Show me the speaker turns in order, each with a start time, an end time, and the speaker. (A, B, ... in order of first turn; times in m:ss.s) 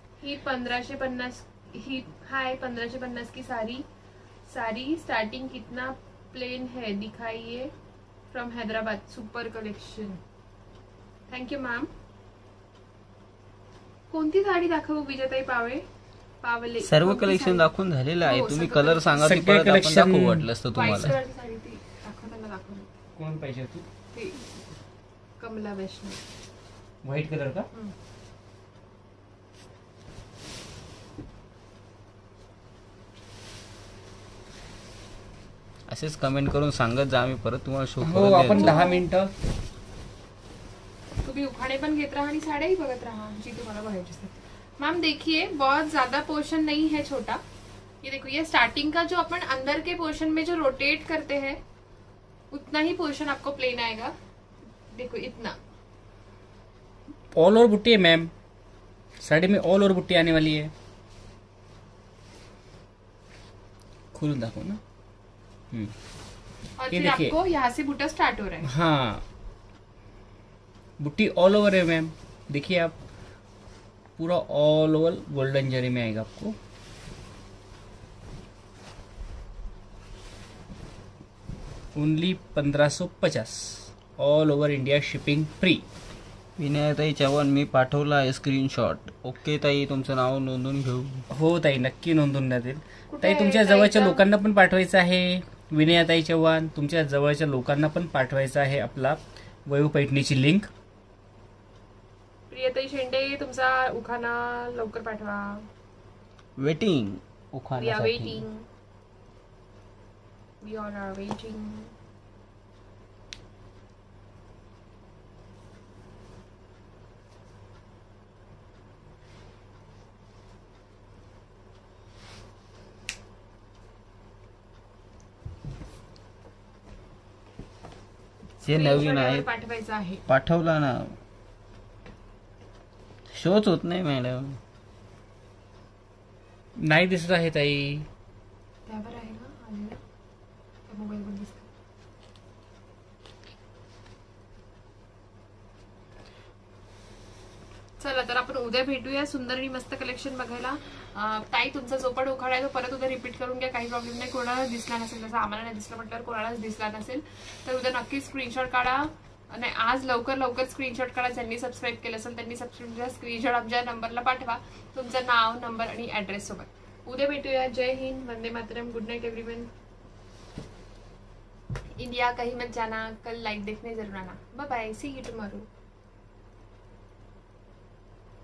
0:00.2-0:03.8 A
0:04.5-0:07.7 A
0:08.3-0:10.2 A
0:11.3-0:11.9 A
0:14.1-0:15.8 A
0:16.4-0:19.3 A
0:16.8-0:21.1 B
0:19.2-0:21.1 C
0:20.8-0:22.9 A
0:23.2-0:23.9 C
0:24.1-0:24.4 A
0:25.4-0:26.2 A
0:27.0-0:27.7 C
0:35.9-0:38.8 B
0:38.0-0:39.3 C
0:38.5-0:39.0 A
0:41.2-0:47.4 A
0:48.0-0:51.6 A
0:52.5-0:54.2 A
0:54.9-0:55.6 A
0:57.4-0:58.3 C
0:59.2-1:00.7 C
1:04.1-1:04.8 C
1:06.8-1:08.7 A
1:06.9-1:07.4 C
1:08.6-1:09.2 C
1:11.0-1:13.0 C
1:14.2-1:16.6 C
1:21.9-1:25.8 C
1:26.6-1:31.3 B
1:31.3-1:40.7 C
1:33.1-1:34.2 A
1:42.5-1:45.7 A
1:46.6-1:48.4 B
1:47.8-1:48.6 A
1:50.6-1:51.9 A
2:08.6-2:09.5 B
2:08.6-2:10.2 A
2:10.3-2:11.2 B
2:13.3-2:14.6 B
2:16.8-2:18.1 C
2:18.9-2:20.0 A
2:20.9-2:21.7 A
2:28.0-2:49.7 A
2:52.0-2:55.7 A